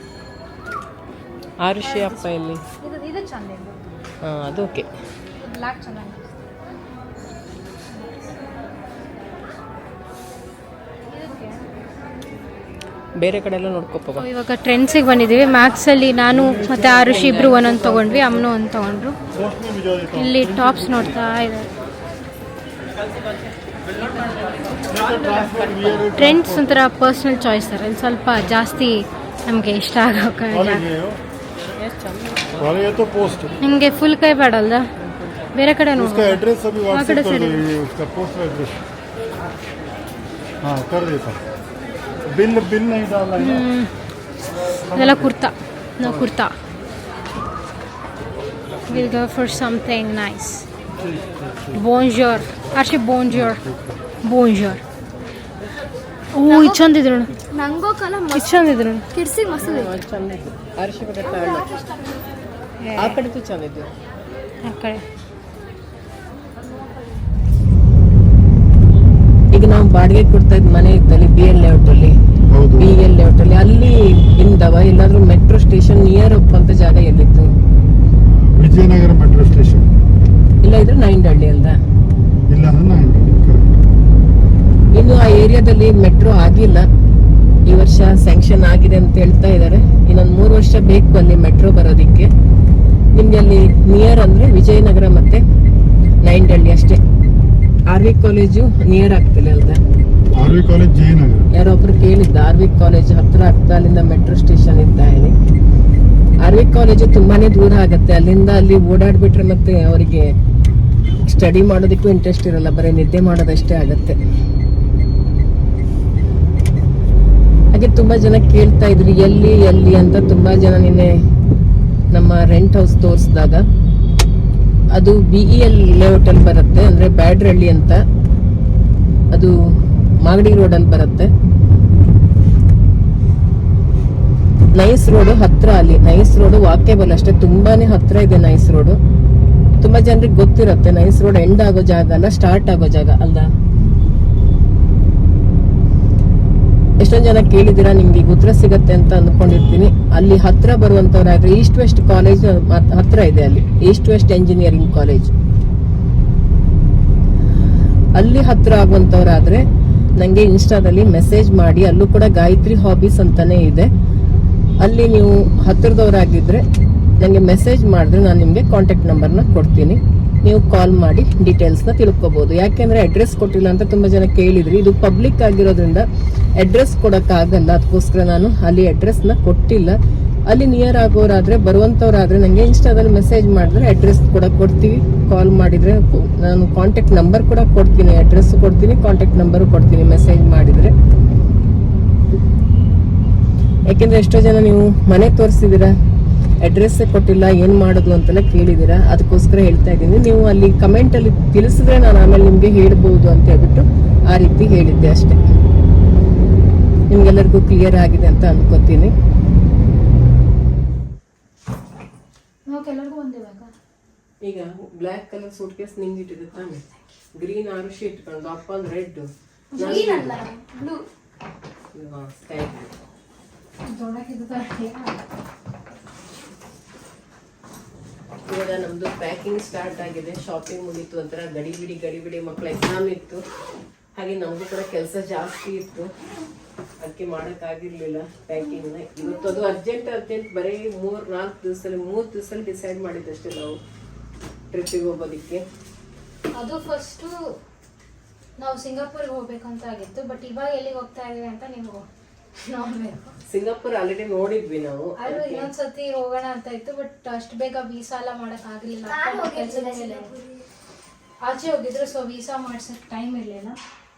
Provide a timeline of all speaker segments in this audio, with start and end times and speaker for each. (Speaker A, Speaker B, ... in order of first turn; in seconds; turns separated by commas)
Speaker A: 1.6-2.6, Speaker B: 1.8-3.9, Speaker A: 4.2-4.9, Speaker B: 5.4-6.4, Speaker B: 7.9-8.5, Speaker B: 11.1-11.9, Speaker A: 13.2-14.3, Speaker B: 14.2-19.2, Speaker C: 16.4-18.2, Speaker C: 19.4-20.5, Speaker B: 20.1-21.7, Speaker A: 25.0-26.1, Speaker C: 25.0-26.5, Speaker B: 26.1-30.9, Speaker C: 30.5-31.2, Speaker A: 31.8-32.8, Speaker C: 32.6-33.5, Speaker B: 33.6-34.9, Speaker B: 35.5-37.7, Speaker C: 36.0-38.8, Speaker C: 40.6-41.4, Speaker C: 42.2-43.6, Speaker B: 43.4-43.9, Speaker C: 44.8-45.2, Speaker B: 44.9-46.5, Speaker B: 48.9-50.7, Speaker B: 51.7-53.7, Speaker C: 53.3-53.8, Speaker B: 54.2-54.8, Speaker B: 56.3-57.4, Speaker D: 56.5-56.9, Speaker D: 57.5-60.0, Speaker B: 58.3-59.1, Speaker A: 59.5-61.7, Speaker D: 61.2-62.3, Speaker B: 62.8-63.2, Speaker A: 63.0-63.9, Speaker B: 64.6-65.0, Speaker A: 69.5-72.2, Speaker C: 72.5-72.9, Speaker A: 72.7-77.5, Speaker C: 78.3-79.9, Speaker A: 80.6-81.8, Speaker C: 82.5-83.7, Speaker A: 85.0-86.9, Speaker A: 87.7-92.3, Speaker A: 93.2-95.4, Speaker A: 96.2-97.0, Speaker A: 97.9-99.8, Speaker C: 100.3-101.5, Speaker A: 101.5-105.3, Speaker A: 106.4-110.3, Speaker A: 111.2-114.2, Speaker A: 117.7-121.1, Speaker A: 122.1-123.6, Speaker A: 125.0-128.0, Speaker A: 130.3-131.3, Speaker A: 134.8-139.0, Speaker A: 139.8-143.5, Speaker A: 147.0-155.3, Speaker A: 158.2-159.6, Speaker A: 160.2-163.9, Speaker A: 164.8-166.6, Speaker A: 167.2-176.1, Speaker A: 176.6-180.0, Speaker A: 180.5-190.9, Speaker A: 193.9-195.9, Speaker A: 196.6-205.4, Speaker A: 207.1-209.1, Speaker B: 212.7-213.7, Speaker A: 214.4-216.8, Speaker A: 217.4-220.4, Speaker B: 219.8-220.6, Speaker D: 219.8-221.0, Speaker A: 221.9-222.9, Speaker B: 223.9-225.2, Speaker A: 228.5-233.4, Speaker A: 234.2-236.1, Speaker A: 237.0-243.8, Speaker A: 244.7-245.6, Speaker B: 246.5-247.3, Speaker B: 248.6-253.4, Speaker A: 253.5-255.7, Speaker B: 255.2-260.3, Speaker D: 259.1-260.7, Speaker B: 261.4-263.8